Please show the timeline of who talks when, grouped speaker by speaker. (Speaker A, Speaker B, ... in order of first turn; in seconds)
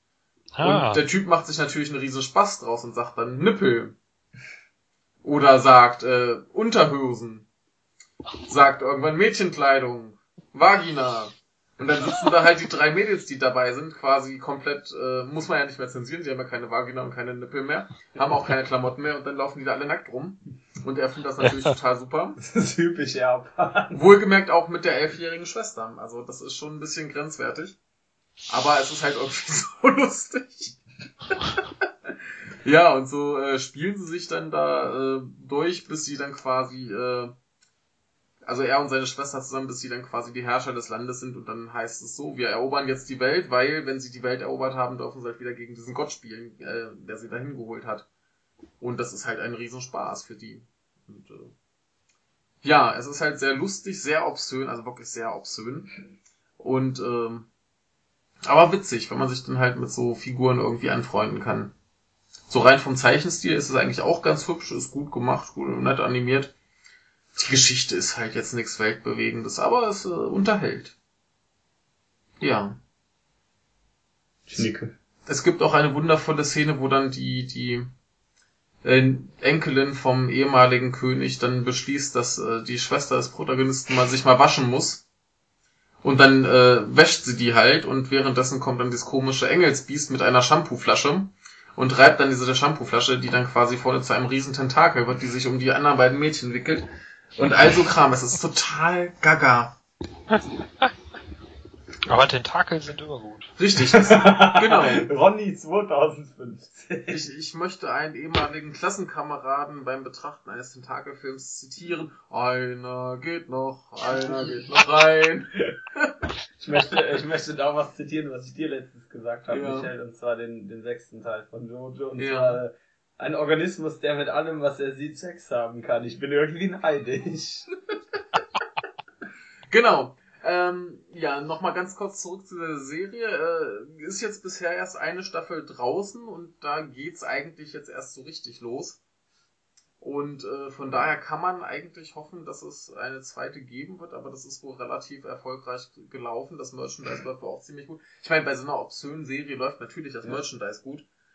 Speaker A: 0.5-1.0, 100.3-100.9, 102.1-103.5
Speaker B: 0.6-4.0, 5.2-7.5, 8.5-22.4, 23.9-27.8, 28.5-30.8, 32.6-37.3, 38.4-48.1, 48.8-51.5, 52.6-56.0, 56.6-57.5, 58.4-61.7, 62.5-66.5, 67.3-70.9, 72.4-72.8, 75.2-77.9, 78.8-85.0, 86.0-99.8, 103.6-105.1, 107.1-116.2, 119.5-119.9, 122.2-122.6, 129.7-139.0, 140.0-151.1
Speaker C: 22.4-24.0, 74.5-74.9, 103.9-107.2, 114.2-114.5, 116.6-127.7